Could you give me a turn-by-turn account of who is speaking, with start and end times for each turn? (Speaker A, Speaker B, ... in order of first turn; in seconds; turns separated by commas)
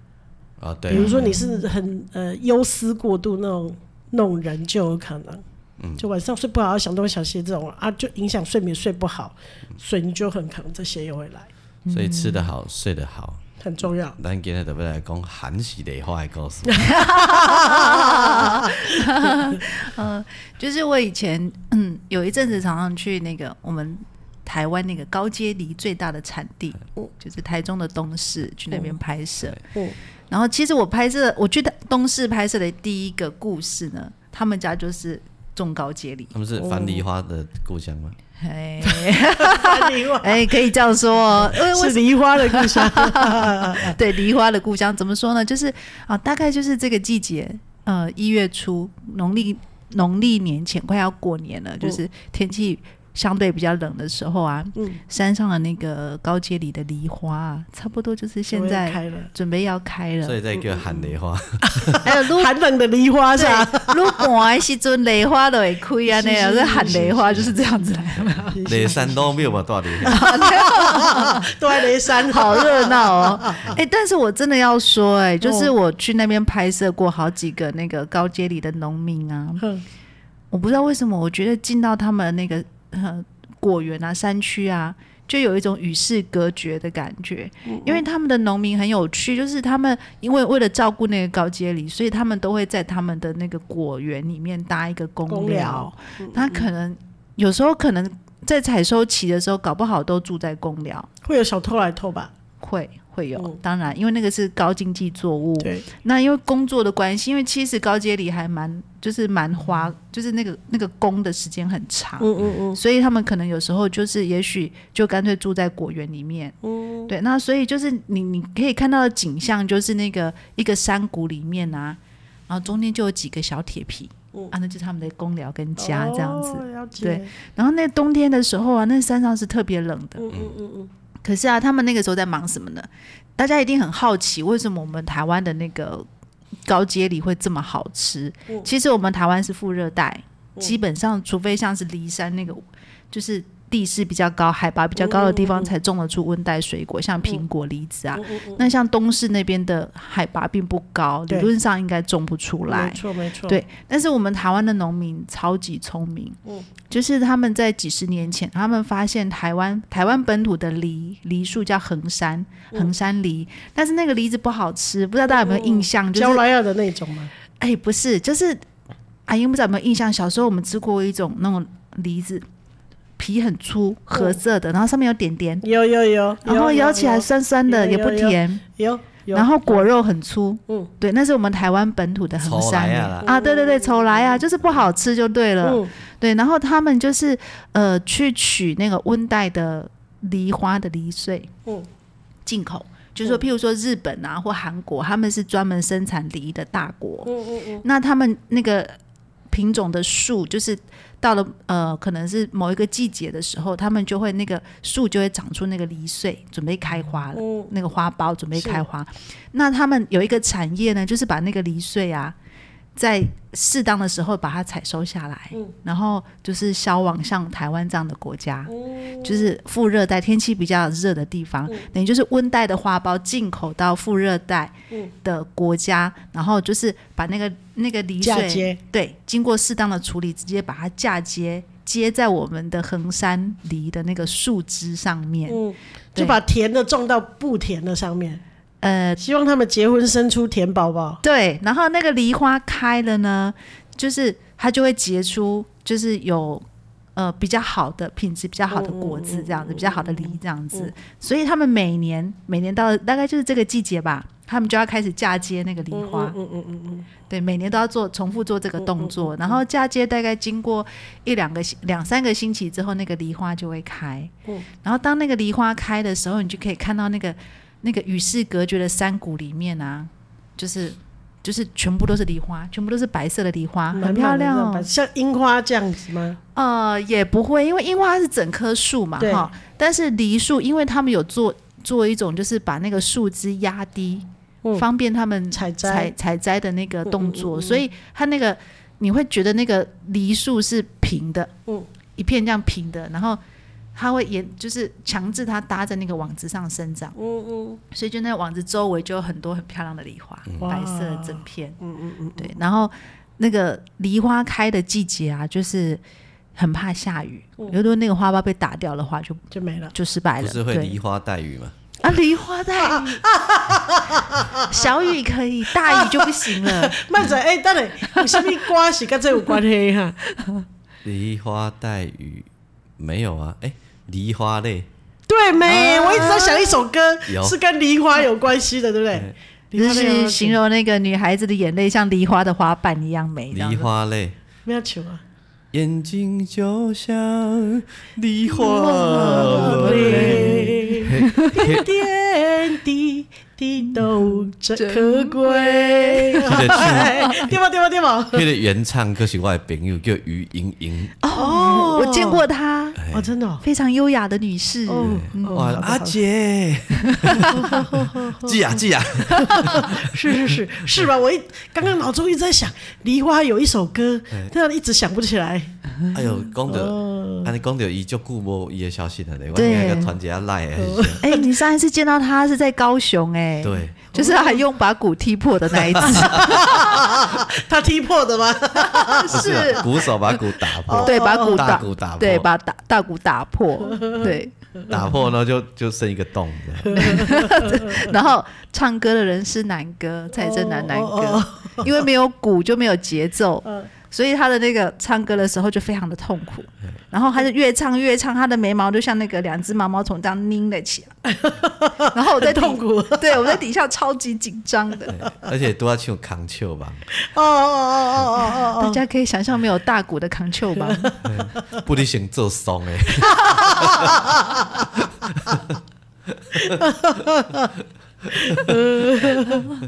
Speaker A: 0.6-1.3, Speaker B: 0.9-5.4, Speaker C: 0.9-1.6, Speaker A: 5.8-6.0, Speaker B: 6.0-11.5, Speaker C: 11.8-12.5, Speaker A: 11.9-13.4, Speaker B: 13.6-14.2, Speaker A: 14.2-16.9, Speaker B: 16.7-19.4, Speaker C: 16.8-29.6, Speaker C: 30.3-36.3, Speaker A: 36.3-38.1, Speaker B: 36.6-37.0, Speaker C: 38.4-60.4, Speaker B: 38.8-40.6, Speaker B: 41.4-44.0, Speaker B: 58.5-59.3, Speaker A: 60.2-62.0, Speaker B: 61.6-64.3, Speaker C: 62.0-62.5, Speaker C: 63.4-68.6, Speaker B: 66.1-67.4, Speaker B: 68.5-73.8, Speaker A: 68.6-70.2, Speaker C: 70.0-71.5, Speaker C: 72.2-79.6, Speaker B: 75.4-75.7, Speaker C: 80.5-101.1, Speaker B: 87.7-88.0, Speaker B: 95.3-96.7, Speaker B: 101.2-102.3, Speaker C: 102.6-116.5, Speaker B: 105.6-105.8, Speaker B: 112.2-112.8, Speaker B: 116.6-117.1, Speaker C: 117.1-130.3, Speaker B: 125.8-127.3, Speaker B: 130.2-130.9, Speaker C: 131.2-136.1, Speaker C: 136.6-166.4, Speaker B: 145.0-145.7, Speaker B: 148.2-148.6, Speaker B: 152.7-153.6, Speaker B: 165.3-167.3, Speaker C: 167.6-168.6, Speaker C: 169.3-172.4, Speaker C: 173.2-175.6, Speaker B: 175.6-179.9, Speaker C: 176.4-178.6, Speaker C: 179.3-191.5, Speaker A: 182.4-183.3, Speaker B: 183.2-184.4, Speaker B: 185.6-185.9, Speaker C: 192.4-198.9, Speaker B: 197.2-197.8, Speaker C: 199.5-212.3, Speaker B: 207.3-207.7, Speaker B: 208.6-208.8, Speaker C: 212.9-235.6, Speaker B: 218.7-219.5, Speaker B: 228.2-228.8, Speaker B: 235.5-238.4, Speaker C: 238.8-239.2, Speaker B: 239.2-241.2, Speaker C: 241.2-256.4, Speaker B: 248.7-250.9, Speaker B: 255.9-257.1, Speaker C: 257.3-274.9, Speaker B: 258.8-259.6, Speaker B: 273.9-276.4, Speaker C: 276.5-291.5, Speaker B: 279.2-279.5, Speaker B: 285.5-286.1, Speaker B: 287.1-287.8, Speaker C: 292.1-293.4, Speaker C: 293.9-297.1, Speaker B: 297.1-297.8, Speaker C: 297.9-301.8, Speaker A: 300.5-300.7, Speaker B: 300.6-302.5, Speaker C: 302.4-306.0, Speaker C: 306.6-311.0, Speaker B: 309.5-309.9, Speaker A: 310.4-311.7, Speaker C: 312.0-313.2, Speaker B: 312.8-314.8, Speaker C: 314.6-317.2, Speaker B: 315.9-320.2, Speaker C: 318.1-318.4, Speaker A: 321.0-322.5, Speaker A: 323.0-324.9, Speaker B: 325.3-330.6, Speaker C: 325.7-326.8, Speaker A: 327.3-327.6, Speaker C: 329.7-333.9, Speaker A: 333.5-334.4, Speaker B: 334.6-335.2, Speaker A: 335.7-341.9, Speaker C: 338.5-341.7, Speaker B: 338.7-348.4, Speaker C: 343.9-347.5, Speaker A: 346.4-347.4, Speaker A: 348.3-351.1, Speaker C: 351.2-353.0, Speaker B: 351.3-352.4, Speaker A: 353.0-353.3, Speaker B: 353.1-353.6, Speaker C: 353.6-355.8, Speaker B: 354.9-356.2, Speaker A: 355.0-360.5, Speaker C: 357.0-357.6, Speaker B: 357.4-358.8, Speaker B: 359.3-365.7, Speaker A: 366.1-371.2, Speaker B: 366.7-367.5, Speaker C: 369.5-370.1, Speaker B: 370.8-371.5, Speaker C: 371.2-377.1, Speaker A: 373.6-374.0, Speaker B: 374.1-374.6, Speaker B: 375.9-379.9, Speaker A: 376.1-376.4, Speaker C: 378.8-379.9, Speaker A: 379.3-382.4, Speaker B: 380.8-381.8, Speaker C: 381.0-384.5, Speaker B: 383.8-384.9, Speaker A: 384.9-387.2, Speaker B: 386.8-388.1, Speaker C: 386.9-401.1, Speaker B: 390.3-391.9, Speaker B: 401.2-403.6, Speaker C: 402.1-405.2, Speaker A: 405.1-407.0, Speaker B: 407.1-409.0, Speaker C: 408.5-411.1, Speaker B: 410.8-411.4, Speaker A: 411.2-414.3, Speaker B: 413.6-414.6, Speaker A: 415.0-415.8, Speaker A: 416.5-416.8, Speaker B: 416.6-417.7, Speaker A: 418.4-418.8, Speaker B: 418.4-419.6